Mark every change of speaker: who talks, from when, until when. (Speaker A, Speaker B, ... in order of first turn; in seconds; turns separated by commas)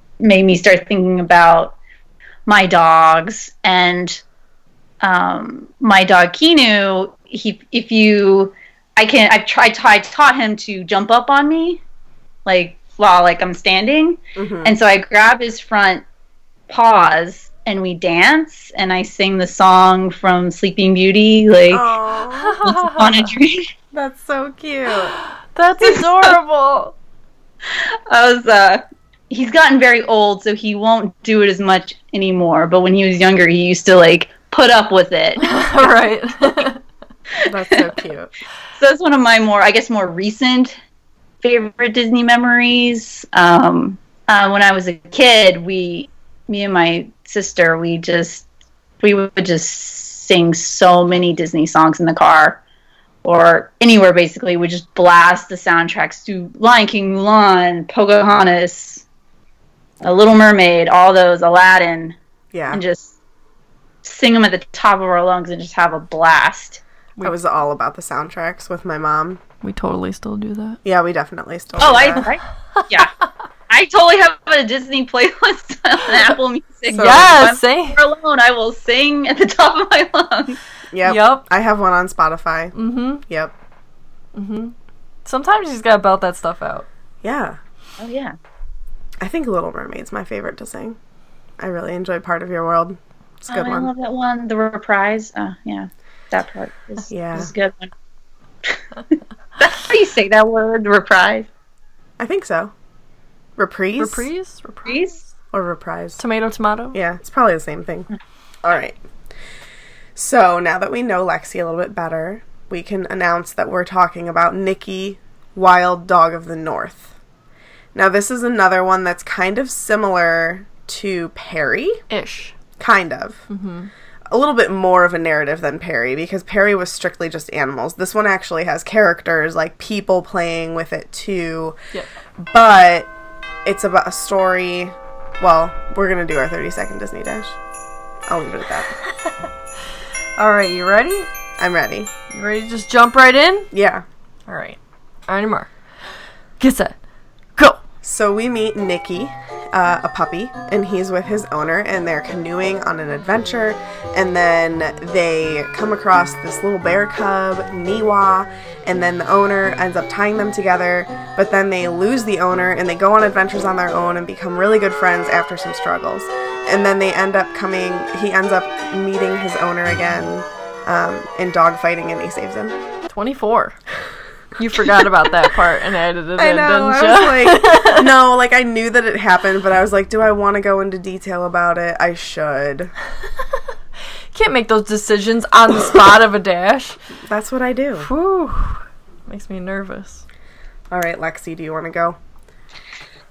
Speaker A: 0.2-1.8, Speaker A: 2.5-4.2, Speaker A: 5.0-11.8, Speaker A: 12.4-16.0, Speaker B: 14.3-14.7, Speaker A: 16.7-21.8, Speaker B: 21.7-22.6, Speaker C: 22.4-23.3, Speaker A: 22.6-23.7, Speaker B: 23.9-25.1, Speaker C: 25.1-26.9, Speaker A: 25.8-26.3, Speaker A: 27.7-35.9, Speaker C: 35.4-36.8, Speaker A: 37.4-37.9, Speaker B: 37.4-38.3, Speaker A: 38.8-40.7, Speaker A: 41.4-48.4, Speaker A: 49.0-52.6, Speaker A: 53.2-59.0, Speaker A: 60.0-62.1, Speaker B: 62.5-62.8, Speaker A: 62.7-63.1, Speaker A: 64.0-66.8, Speaker B: 67.2-69.4, Speaker C: 69.6-70.8, Speaker B: 70.8-72.2, Speaker A: 71.8-73.1, Speaker A: 73.7-80.6, Speaker C: 76.9-78.0, Speaker B: 76.9-77.3, Speaker B: 80.9-82.7, Speaker C: 81.0-81.4, Speaker C: 82.7-83.2, Speaker B: 83.3-83.5, Speaker C: 84.3-86.9, Speaker B: 87.2-87.6, Speaker A: 88.0-88.3, Speaker B: 89.2-91.0, Speaker B: 91.6-93.9, Speaker A: 93.5-97.9, Speaker B: 97.1-97.5, Speaker A: 99.6-101.5, Speaker B: 102.2-102.7, Speaker B: 103.6-104.3, Speaker C: 104.0-105.0, Speaker A: 104.9-105.2, Speaker B: 105.5-106.2, Speaker C: 106.2-107.0, Speaker B: 106.9-108.1, Speaker B: 108.6-109.0, Speaker B: 110.1-117.1, Speaker B: 117.9-122.0, Speaker C: 122.1-122.5, Speaker B: 122.8-123.4, Speaker C: 123.5-123.9, Speaker B: 124.3-131.8, Speaker B: 132.4-133.1, Speaker B: 133.6-137.5, Speaker B: 138.2-138.9, Speaker C: 140.4-141.3, Speaker B: 141.6-142.1, Speaker C: 142.3-143.7, Speaker B: 143.7-144.0, Speaker C: 144.5-144.8, Speaker C: 145.3-145.7, Speaker C: 146.6-146.9, Speaker B: 148.0-172.8, Speaker C: 173.1-173.8, Speaker C: 174.6-178.1, Speaker B: 176.3-182.9, Speaker C: 184.3-187.0, Speaker B: 187.3-188.1, Speaker C: 188.0-190.2, Speaker B: 190.9-192.2